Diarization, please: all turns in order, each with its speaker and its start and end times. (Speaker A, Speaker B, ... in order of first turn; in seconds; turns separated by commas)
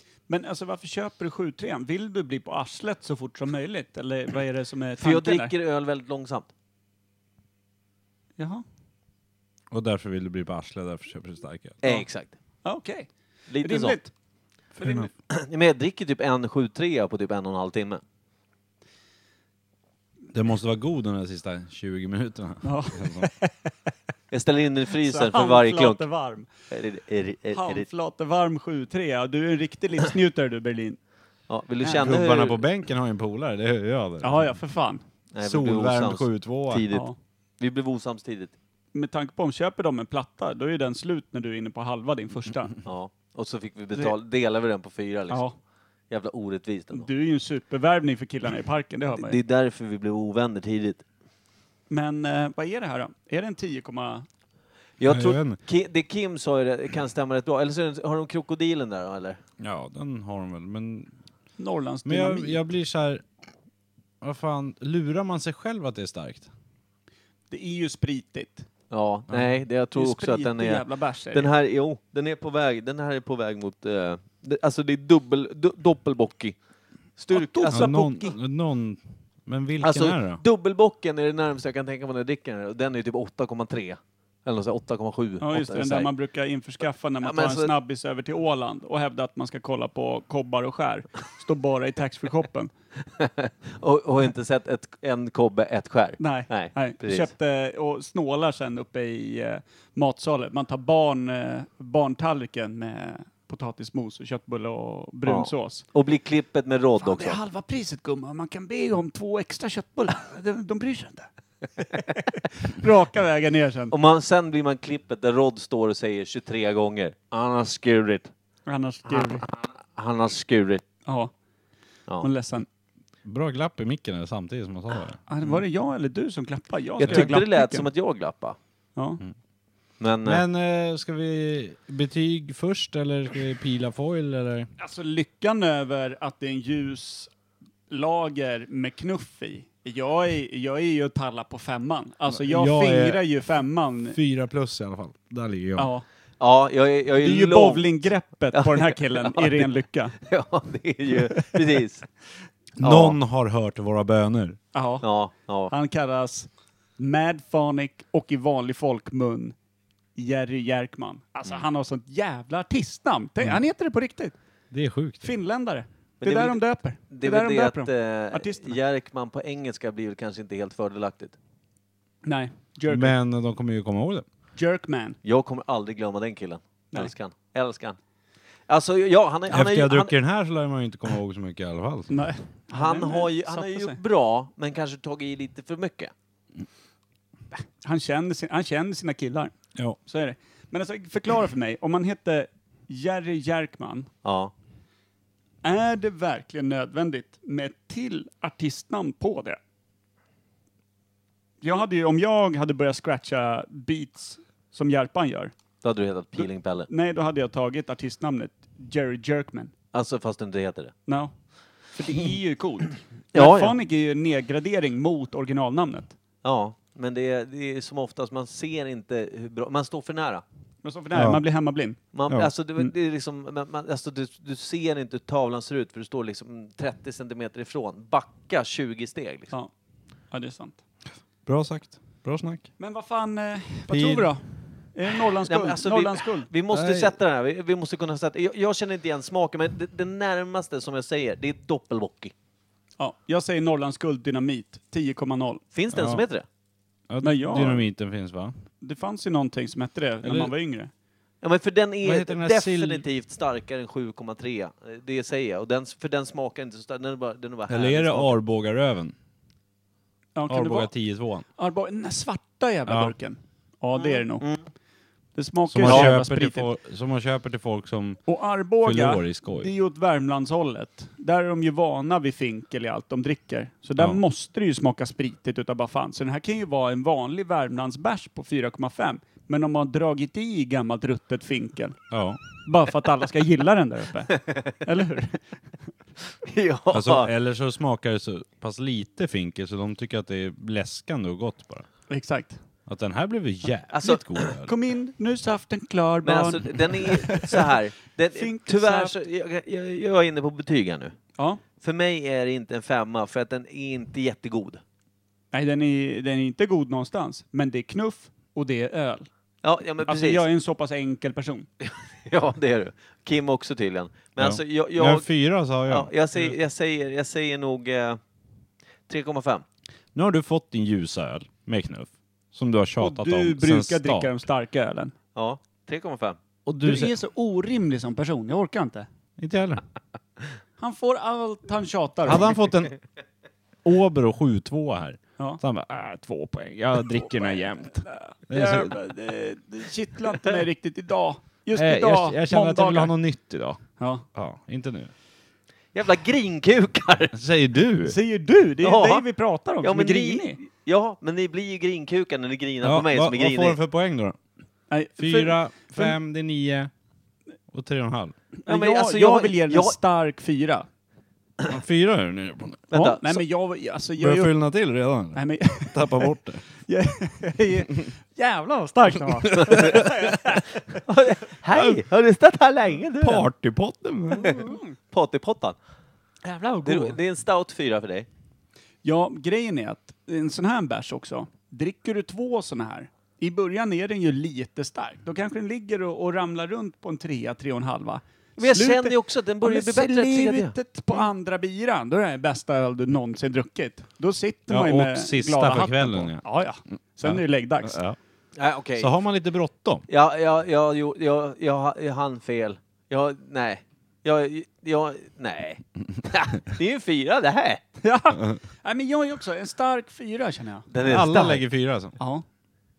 Speaker A: 0.3-5.5, Speaker B: 5.0-6.5, Speaker A: 8.4-8.6, Speaker C: 9.7-11.8, Speaker B: 11.8-12.3, Speaker A: 12.7-13.1, Speaker B: 13.5-14.0, Speaker A: 13.6-14.1, Speaker A: 14.8-15.1, Speaker C: 14.8-15.1, Speaker B: 15.3-18.0, Speaker C: 20.3-23.3, Speaker A: 22.6-23.7, Speaker B: 24.3-26.1, Speaker A: 25.0-26.5, Speaker B: 26.7-27.9, Speaker A: 27.5-31.0, Speaker B: 31.5-32.6, Speaker A: 31.8-32.1, Speaker C: 31.9-34.6, Speaker A: 34.2-35.0, Speaker B: 35.3-38.5, Speaker C: 35.4-36.8, Speaker A: 38.9-42.7, Speaker B: 42.9-45.5, Speaker A: 45.3-45.5, Speaker B: 46.1-47.1, Speaker A: 46.9-49.4, Speaker B: 49.1-51.0, Speaker A: 51.9-54.2, Speaker B: 55.0-59.4, Speaker C: 55.0-55.6, Speaker C: 59.6-61.1, Speaker A: 61.6-62.6, Speaker C: 62.0-63.2, Speaker C: 64.2-66.5, Speaker A: 67.5-68.7, Speaker B: 68.9-76.6, Speaker A: 70.0-71.5, Speaker B: 77.2-78.2, Speaker A: 77.3-78.4, Speaker C: 77.7-80.4, Speaker B: 79.8-86.1, Speaker A: 85.4-92.7, Speaker B: 87.2-87.7, Speaker B: 93.2-97.3, Speaker A: 96.2-105.8, Speaker B: 105.2-107.4, Speaker A: 107.0-113.9, Speaker B: 113.9-118.3, Speaker A: 118.7-119.5, Speaker B: 119.1-120.8, Speaker A: 121.0-121.3, Speaker A: 122.2-122.7, Speaker C: 123.2-125.2, Speaker A: 125.3-127.9, Speaker B: 127.0-128.6, Speaker C: 127.0-127.3, Speaker A: 129.0-129.2, Speaker B: 130.0-130.4, Speaker C: 130.2-134.7, Speaker A: 134.8-137.3, Speaker A: 137.9-144.2, Speaker C: 142.3-143.3, Speaker C: 144.1-145.9, Speaker A: 145.8-146.0, Speaker B: 146.4-149.7, Speaker A: 147.2-150.2, Speaker B: 150.2-152.1, Speaker C: 152.8-154.6, Speaker B: 152.8-153.2, Speaker A: 154.7-155.1, Speaker B: 155.0-155.7, Speaker A: 155.7-159.5, Speaker A: 160.2-164.3, Speaker C: 164.7-165.3, Speaker A: 165.2-168.8, Speaker B: 166.2-171.4, Speaker A: 172.2-173.2, Speaker C: 172.9-174.2, Speaker A: 174.6-175.2, Speaker B: 175.2-178.0, Speaker B: 178.7-180.2, Speaker C: 179.5-182.1, Speaker A: 182.1-184.0, Speaker B: 182.7-186.1, Speaker A: 187.5-189.5, Speaker A: 190.0-194.1, Speaker B: 194.2-194.5, Speaker A: 195.6-199.6, Speaker A: 201.6-205.5, Speaker B: 205.8-206.9, Speaker A: 206.9-209.7, Speaker B: 209.9-210.9, Speaker A: 211.1-211.3, Speaker A: 211.9-216.2, Speaker B: 213.3-213.8, Speaker B: 216.4-220.4, Speaker A: 220.8-222.0, Speaker C: 221.1-221.4, Speaker B: 222.1-229.5, Speaker A: 230.3-230.8, Speaker C: 231.4-232.7, Speaker A: 232.8-236.5, Speaker C: 233.9-234.3, Speaker B: 235.5-242.3, Speaker C: 236.7-237.2, Speaker A: 243.0-245.6, Speaker B: 245.7-246.4, Speaker C: 245.9-246.2, Speaker C: 247.1-248.6, Speaker A: 247.2-247.9, Speaker A: 248.8-250.9, Speaker C: 250.2-250.5, Speaker B: 251.4-258.4, Speaker C: 252.0-253.0, Speaker C: 257.7-259.1, Speaker A: 260.4-260.9, Speaker C: 260.5-261.4, Speaker A: 261.5-264.5, Speaker C: 262.9-263.1, Speaker B: 264.0-264.7, Speaker A: 265.4-266.7, Speaker C: 265.7-268.2, Speaker A: 268.3-282.0, Speaker C: 268.8-269.7, Speaker C: 282.1-282.4, Speaker A: 282.6-285.4, Speaker B: 286.4-287.3, Speaker C: 286.9-291.9, Speaker A: 292.1-292.6, Speaker C: 292.9-294.7, Speaker B: 293.9-294.5, Speaker A: 294.6-297.7, Speaker B: 296.2-301.2, Speaker A: 298.4-299.1, Speaker B: 301.8-304.8, Speaker A: 305.5-309.3, Speaker B: 309.6-310.5, Speaker A: 310.0-311.7, Speaker B: 311.8-315.3, Speaker C: 314.4-316.1, Speaker B: 315.9-318.2, Speaker B: 319.1-319.6, Speaker C: 320.1-324.4, Speaker A: 323.0-325.1, Speaker B: 325.4-326.4, Speaker C: 326.7-327.1, Speaker A: 326.8-329.1, Speaker C: 329.4-329.8, Speaker A: 330.8-332.6, Speaker C: 332.2-333.0, Speaker C: 333.8-339.0, Speaker A: 337.2-343.1, Speaker C: 341.7-345.1, Speaker A: 344.0-344.2, Speaker B: 345.9-347.4, Speaker C: 347.3-348.2, Speaker A: 348.0-350.6, Speaker B: 348.8-349.2, Speaker B: 349.8-353.8, Speaker C: 352.8-354.4, Speaker A: 354.9-356.2, Speaker C: 355.2-356.9, Speaker C: 357.7-358.4, Speaker A: 358.6-360.9, Speaker B: 358.7-360.0, Speaker C: 361.7-362.9, Speaker B: 362.9-363.4, Speaker A: 362.9-364.5, Speaker C: 364.2-366.6, Speaker A: 365.3-371.0, Speaker B: 369.5-370.1, Speaker B: 371.0-373.5, Speaker C: 371.7-372.0, Speaker C: 373.2-374.6, Speaker A: 374.3-374.9, Speaker B: 374.4-375.8, Speaker A: 376.4-377.2, Speaker B: 376.8-378.3, Speaker A: 379.0-398.0, Speaker B: 388.6-391.3, Speaker C: 394.7-396.4, Speaker C: 397.2-398.2, Speaker B: 398.5-399.1, Speaker C: 399.0-400.0, Speaker B: 400.1-407.8, Speaker A: 408.0-410.9, Speaker B: 410.9-411.6, Speaker C: 411.0-412.2, Speaker A: 412.2-412.4